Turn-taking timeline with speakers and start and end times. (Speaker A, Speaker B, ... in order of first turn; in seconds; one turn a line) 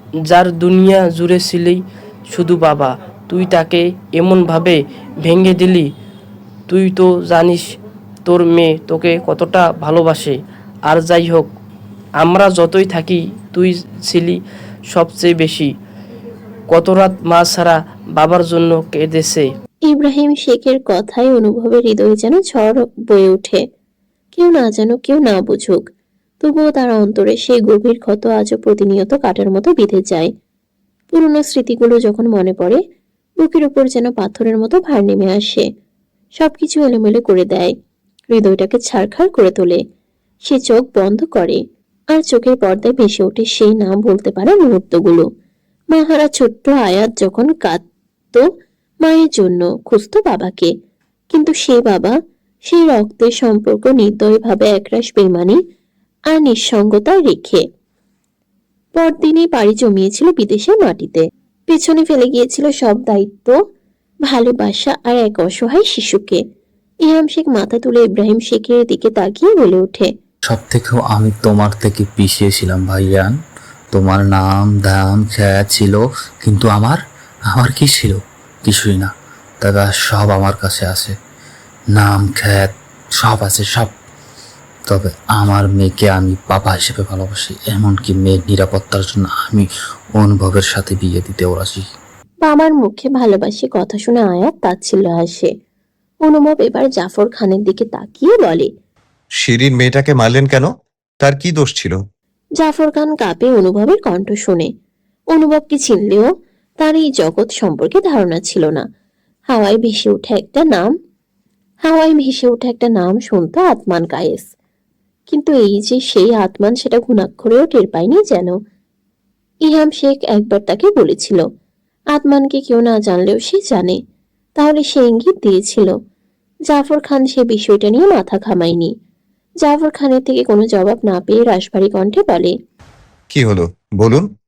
Speaker A: 0.3-5.9
Speaker A: 6.7-11.5
Speaker A: 12.2-15.7
Speaker A: 16.7-19.5
Speaker B: 19.9-23.6
Speaker B: 24.4-25.8
Speaker B: 26.4-30.3
Speaker B: 31.1-32.8
Speaker B: 33.4-35.7
Speaker B: 36.4-37.7
Speaker B: 38.3-39.8
Speaker B: 40.5-41.6
Speaker B: 42.1-45.2
Speaker B: 45.9-48.5
Speaker B: 49.0-50.7
Speaker B: 51.3-52.1
Speaker B: 52.7-55.6
Speaker B: 56.3-57.6
Speaker B: 59.0-63.5
Speaker B: 64.3-66.4
Speaker B: 67.0-70.1
Speaker C: 70.5-73.4
Speaker C: 73.9-77.0
Speaker C: 77.5-81.2
Speaker C: 81.9-83.9
Speaker C: 84.9-91.8
Speaker B: 92.5-95.5
Speaker B: 96.2-98.7
Speaker D: 99.4-100.7
Speaker D: 101.2-102.0
Speaker B: 102.6-104.7
Speaker B: 105.3-106.3
Speaker B: 106.8-108.8
Speaker B: 109.5-110.9
Speaker B: 111.8-114.5
Speaker B: 115.3-118.5
Speaker B: 119.7-121.4
Speaker B: 122.1-124.0
Speaker B: 124.6-125.9
Speaker B: 126.7-128.9
Speaker B: 129.6-132.5
Speaker D: 133.3-134.3